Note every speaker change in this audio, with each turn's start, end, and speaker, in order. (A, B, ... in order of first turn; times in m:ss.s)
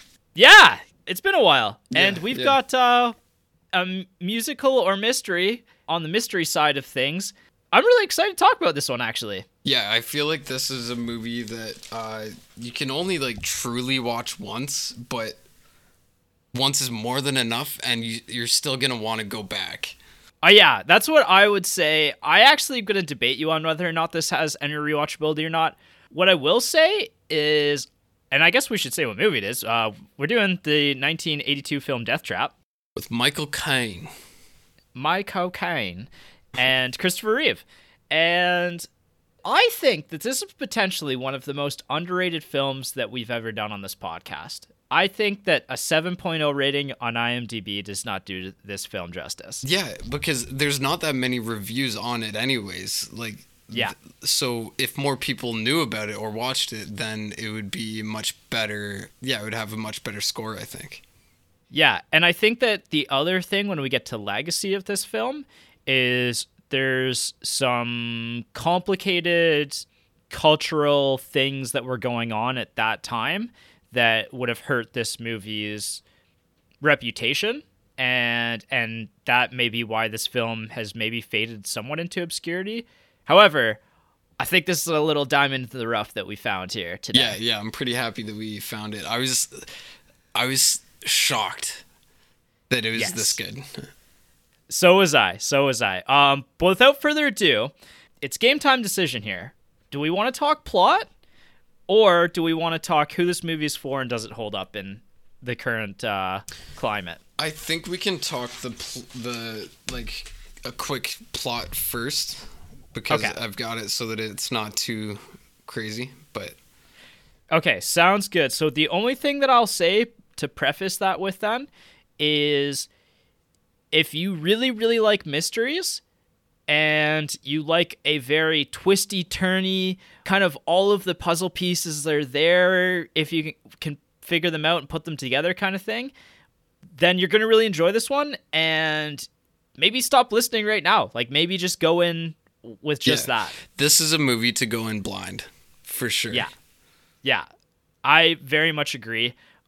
0:00.4-0:03.2 A
0:01.9-0:02.6 B
0:03.7-0:09.4 A
0:09.6-0:15.4 B
0:16.5-0:20.0 B
0:20.4-0:32.5 A
0:33.0-0:34.1 B
0:34.9-0:38.8 A
0:39.4-0:49.6 A
0:49.6-1:01.0 B
1:01.7-1:16.0 A
1:16.8-1:23.8 A
1:24.4-1:27.4 A
1:27.1-1:29.7 B
1:30.3-1:31.8 B
1:32.7-1:33.8 B
1:32.9-1:33.4 A
1:34.7-1:41.1 A
1:41.9-1:47.2 A
1:47.4-1:56.6 B
1:53.1-1:53.4 A
1:57.5-2:02.9 A
2:03.9-2:06.0 A
2:06.7-2:16.1 A
2:17.0-2:23.6 A
2:23.0-2:26.5 B
2:28.0-2:29.3 A